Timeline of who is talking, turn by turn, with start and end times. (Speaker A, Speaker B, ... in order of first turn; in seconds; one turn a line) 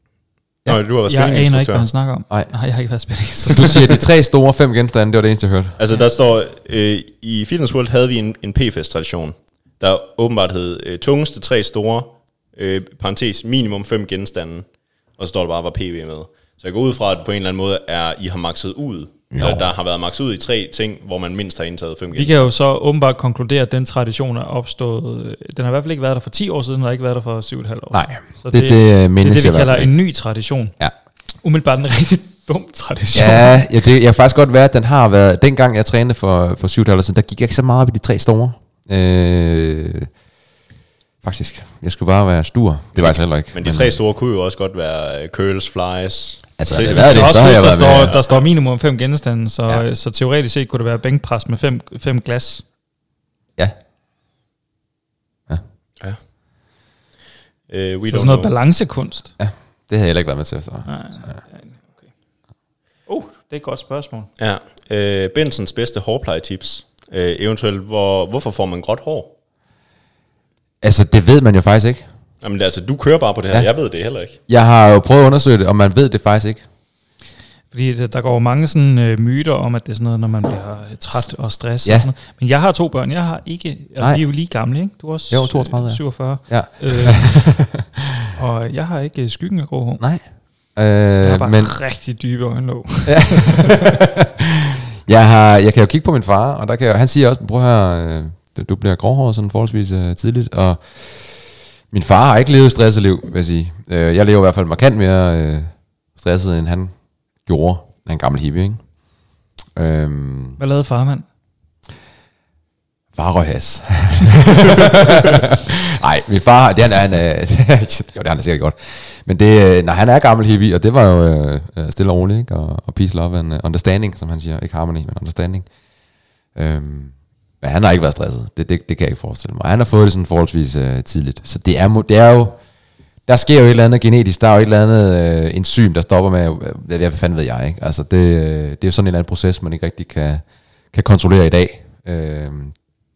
Speaker A: 0.6-1.9
Speaker B: 1.1-4.0
Speaker C: 3.5-5.8
Speaker A: 5.8-22.4
Speaker C: 19.3-19.6
Speaker B: 22.1-30.8
Speaker C: 27.9-29.9
Speaker B: 31.4-33.6
Speaker C: 33.1-40.1
Speaker C: 41.2-44.0
Speaker A: 43.0-48.2
Speaker C: 46.6-48.2
Speaker B: 46.8-52.6
Speaker A: 57.7-58.5
Speaker B: 58.1-59.3
Speaker C: 59.4-61.4
Speaker B: 60.8-62.1
Speaker B: 63.0-64.3
Speaker A: 64.4-69.3
Speaker C: 70.8-72.0
Speaker A: 72.4-74.4
Speaker C: 74.5-76.6
Speaker B: 77.7-87.4
Speaker C: 85.3-87.8
Speaker B: 88.3-90.0
Speaker C: 90.0-91.8
Speaker B: 91.2-93.9
Speaker C: 93.0-106.9
Speaker C: 107.4-108.8
Speaker C: 109.7-110.6
Speaker B: 110.6-111.2
Speaker C: 113.1-125.7
Speaker C: 126.5-132.6
Speaker C: 133.2-142.8